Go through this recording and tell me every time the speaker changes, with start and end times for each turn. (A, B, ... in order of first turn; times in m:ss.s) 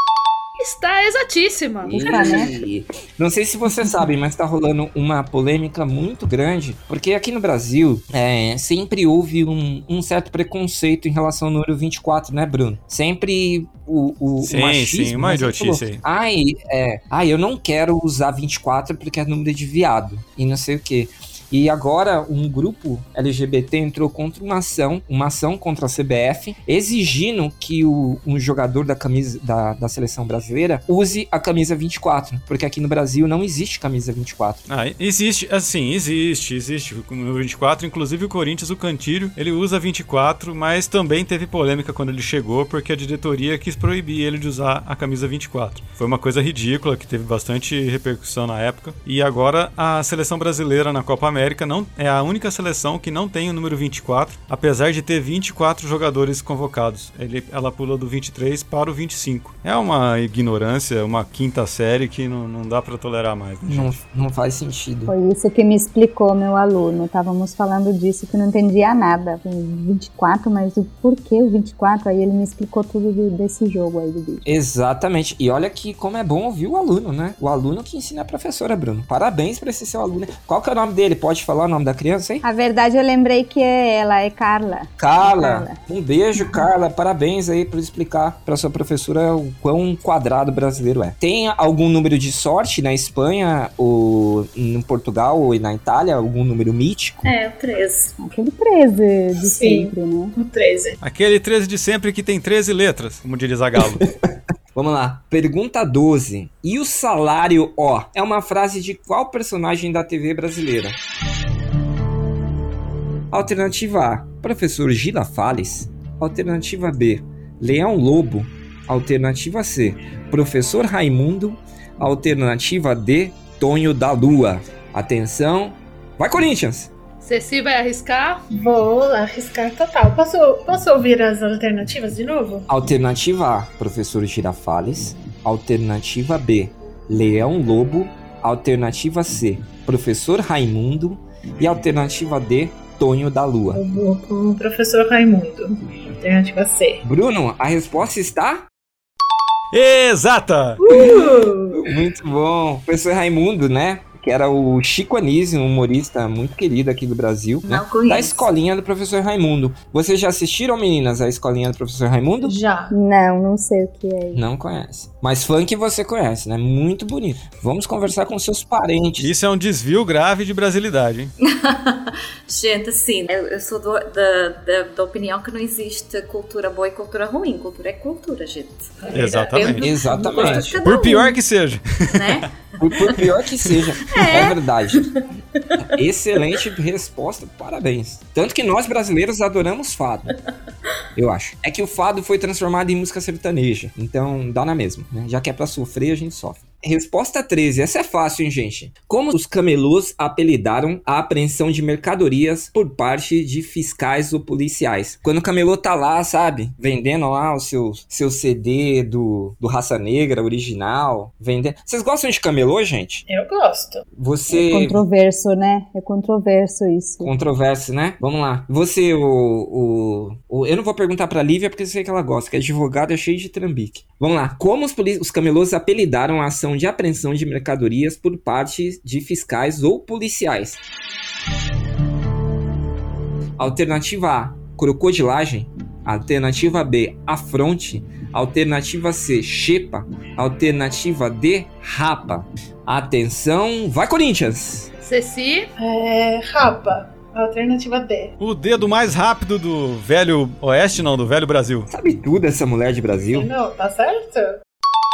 0:00.6-0:02.2 A
0:01.9-0:34.6 B
0:01.9-0:02.5 C
0:14.4-0:16.0 D
0:34.7-1:04.0 D
1:03.6-1:05.1 B
1:05.1-1:14.4 C
1:14.4-1:22.4 B
1:22.4-1:25.8 C
1:25.0-1:37.3 B
1:37.2-1:38.2 E
1:38.2-1:40.3 C
1:39.4-1:41.0 F
1:41.0-1:44.0 D
1:43.7-1:44.1 B
1:44.7-1:51.0 B
1:53.3-2:06.9 B
2:07.2-2:08.4 A
2:08.5-2:12.7 F
2:12.7-2:23.8 B
2:23.7-2:27.0 F
2:27.0-2:28.6 B
2:29.7-2:30.8 D
2:30.8-2:31.8 F
2:31.7-2:42.5 B
2:37.7-2:38.4 E
2:42.4-2:42.9 F
2:42.9-2:44.4 C
2:44.3-2:49.3 B
2:49.2-2:51.3 D
2:51.4-3:01.4 E
2:59.0-2:59.5 F
2:59.1-3:00.0 D
2:59.8-3:00.8 B
3:00.8-3:02.4 D
3:02.1-3:03.2 E
3:02.8-3:05.1 B
3:04.1-3:05.8 E
3:05.9-3:10.3 B
3:11.2-3:33.2 B
3:33.3-3:34.0 F
3:34.1-3:35.0 B
3:34.5-3:37.3 C
3:37.2-3:50.8 B
3:53.6-4:04.9 B
4:05.0-4:05.7 A
4:05.8-4:08.3 F
4:08.4-4:11.9 D
4:11.9-4:13.5 B
4:13.3-4:14.6 F